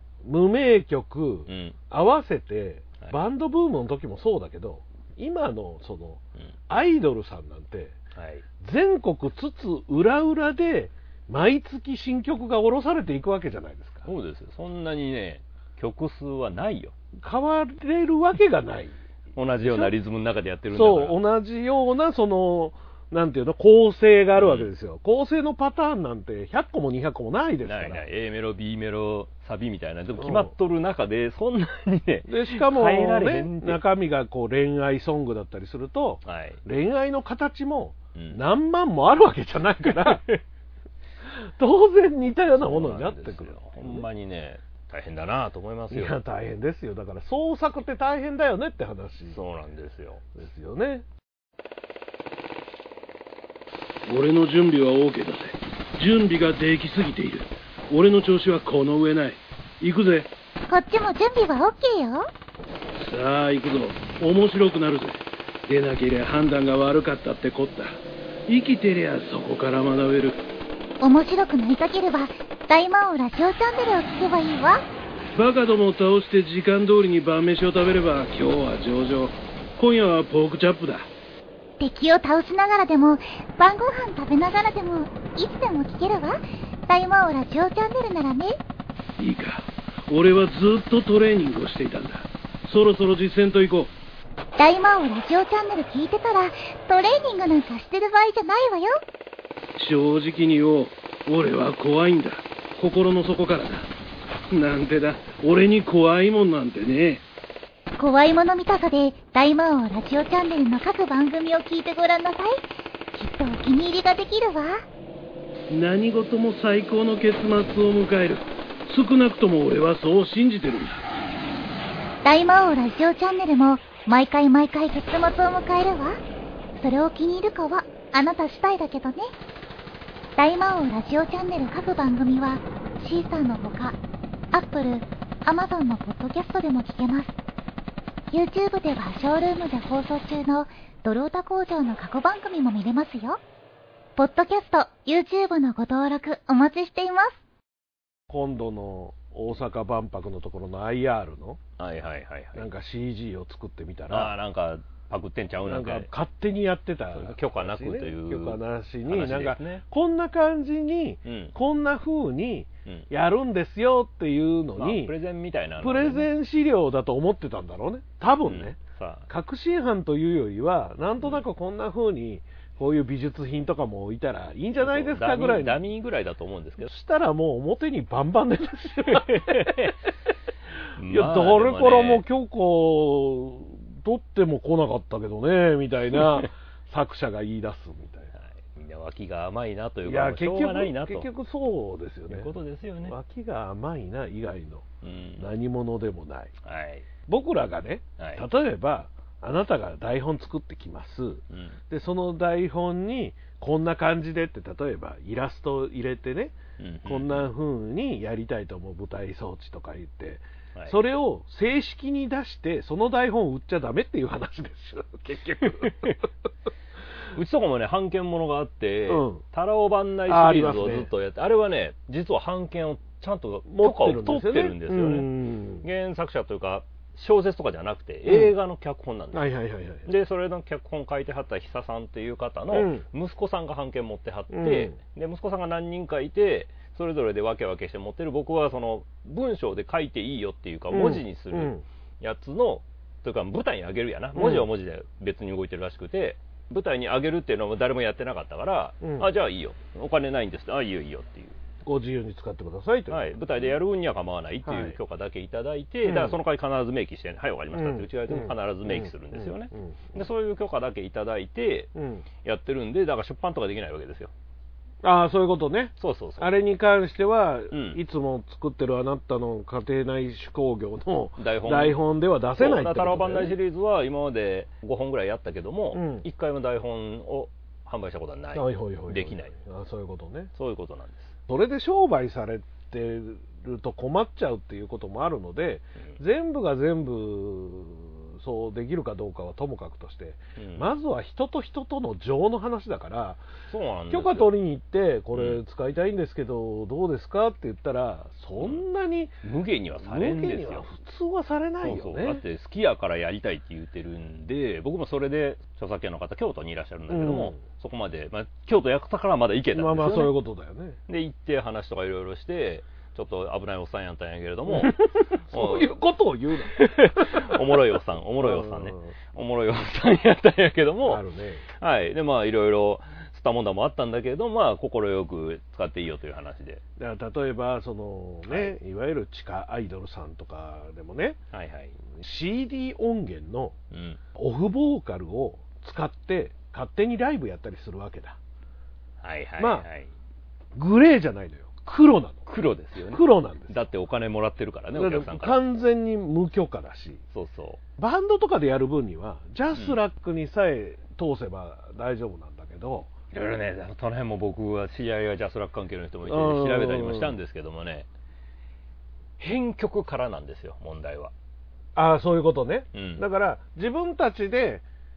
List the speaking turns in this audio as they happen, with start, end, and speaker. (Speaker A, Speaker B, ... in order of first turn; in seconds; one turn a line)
Speaker A: 0.2-8.0
Speaker B: 1.5-1.8
Speaker B: 8.2-8.4
Speaker A: 8.6-14.1
Speaker B: 14.1-16.9
Speaker A: 17.2-19.0
Speaker B: 19.4-21.2
Speaker A: 19.6-19.9
Speaker A: 20.7-28.0
Speaker B: 24.4-24.7
Speaker B: 27.6-33.8
Speaker A: 30.2-30.5
Speaker A: 32.3-40.2
Speaker B: 36.2-36.6
Speaker B: 38.1-38.4
Speaker B: 39.9-40.4
Speaker A: 41.3-44.1
Speaker B: 42.6-46.2
Speaker A: 45.9-49.4
Speaker B: 49.3-50.2
Speaker A: 50.4-51.1
Speaker C: 54.1-60.3
Speaker D: 60.7-62.3
Speaker C: 63.0-70.4
Speaker D: 71.0-74.8
Speaker C: 75.3-81.1
Speaker D: 81.8-88.6
Speaker C: 89.2-93.9
Speaker D: 94.6-99.0
Speaker C: 99.8-103.9
Speaker C: 104.5-107.2
Speaker D: 108.0-114.8
Speaker C: 115.7-121.0
Speaker D: 122.2-126.2
Speaker D: 126.8-129.3
Speaker D: 130.4-134.0
Speaker D: 134.5-137.3
Speaker D: 138.3-143.4
Speaker D: 144.2-147.4
Speaker A: 148.3-151.6
Speaker B: 151.8-152.7
Speaker A: 152.6-154.3
Speaker B: 154.1-156.1
Speaker A: 155.7-165.2
Speaker B: 157.1-159.8
Speaker B: 161.2-161.5
Speaker B: 164.8-166.3
Speaker A: 165.8-168.8
Speaker B: 168.5-169.3
Speaker A: 169.3-175.8
Speaker B: 174.8-176.9
Speaker A: 176.8-179.9
Speaker B: 179.1-180.0
Speaker B: 181.0-182.2
Speaker A: 181.1-188.3
Speaker B: 188.3-191.3
Speaker A: 190.1-192.5
Speaker B: 192.3-193.1
Speaker A: 193.1-194.9
Speaker B: 195.0-195.5
Speaker A: 195.4-196.5
Speaker B: 196.6-197.1
Speaker A: 197.3-206.5
Speaker B: 198.2-198.4
Speaker B: 201.5-201.8
Speaker B: 206.8-207.5
Speaker A: 207.1-216.2
Speaker B: 215.8-216.1
Speaker B: 217.3-225.3
Speaker A: 219.1-219.4
Speaker A: 220.3-221.1
Speaker A: 223.7-225.8
Speaker B: 225.8-229.4
Speaker A: 228.3-228.5
Speaker A: 229.3-230.1
Speaker B: 230.1-251.6
Speaker A: 232.7-233.1
Speaker A: 234.5-235.0
Speaker A: 240.9-241.8
Speaker A: 244.3-244.7
Speaker A: 249.0-249.3
Speaker A: 251.8-253.3
Speaker B: 253.1-261.9
Speaker A: 254.7-255.0
Speaker A: 256.0-256.4
Speaker A: 257.7-260.2
Speaker A: 261.9-262.2
Speaker B: 262.4-264.3
Speaker A: 265.0-273.5
Speaker B: 266.0-266.5
Speaker B: 267.7-268.0
Speaker B: 271.4-272.0
Speaker B: 272.6-279.5
Speaker A: 275.9-276.3
Speaker A: 278.6-280.5
Speaker B: 280.6-281.3
Speaker A: 281.5-293.4
Speaker B: 290.6-290.9
Speaker B: 293.7-294.5
Speaker A: 294.1-299.4
Speaker B: 295.3-295.6
Speaker B: 299.4-300.9
Speaker A: 300.0-302.4
Speaker B: 301.8-310.3
Speaker A: 307.1-307.6
Speaker A: 309.7-311.0
Speaker B: 311.1-315.9
Speaker A: 314.7-317.7
Speaker B: 316.7-321.2
Speaker A: 318.4-319.1
Speaker A: 321.0-321.6
Speaker B: 321.8-326.8
Speaker A: 327.0-331.4
Speaker B: 328.5-328.8
Speaker B: 331.5-332.0
Speaker A: 332.2-333.8
Speaker B: 333.9-334.2
Speaker A: 334.4-338.4
Speaker B: 339.2-340.1
Speaker A: 339.6-339.9
Speaker A: 340.8-342.5
Speaker B: 342.5-345.6
Speaker A: 343.1-343.8
Speaker A: 344.9-347.2
Speaker B: 347.3-347.8
Speaker A: 348.0-353.1
Speaker B: 353.3-358.1
Speaker A: 356.3-357.4
Speaker B: 359.4-361.3
Speaker A: 362.0-364.9
Speaker B: 362.9-363.2